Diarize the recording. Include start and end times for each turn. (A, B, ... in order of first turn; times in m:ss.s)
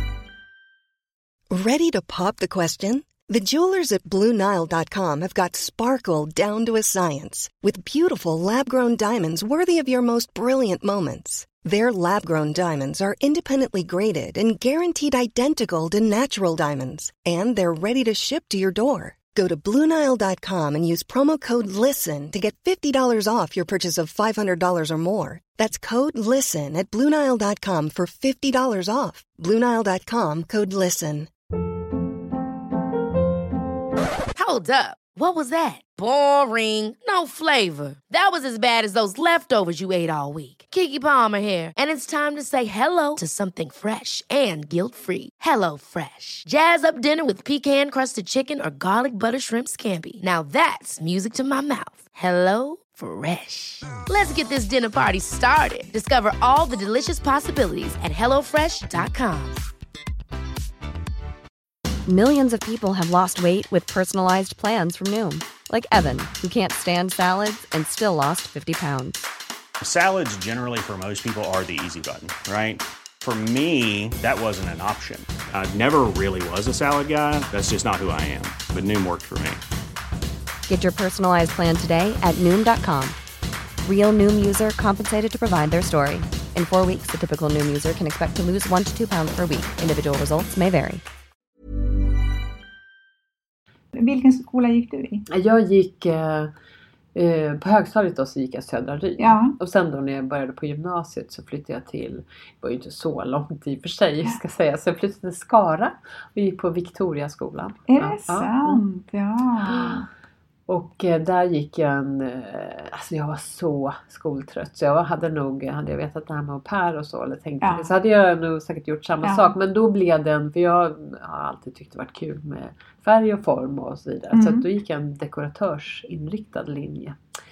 0:01.5-0:31.3 A
0:34.4-0:59.6 B
1:02.1-1:09.2 C
1:09.8-1:19.6 D
1:20.7-1:23.2 C
1:23.8-1:31.0 C
1:33.9-1:35.2 E
1:35.3-1:36.5 F
1:37.2-1:48.8 F
1:39.2-1:39.6 E
1:47.9-1:50.1 E
1:49.7-1:50.0 F
1:50.7-2:07.2 F
1:57.6-1:57.9 E
1:59.2-1:59.5 E
2:04.3-2:04.6 E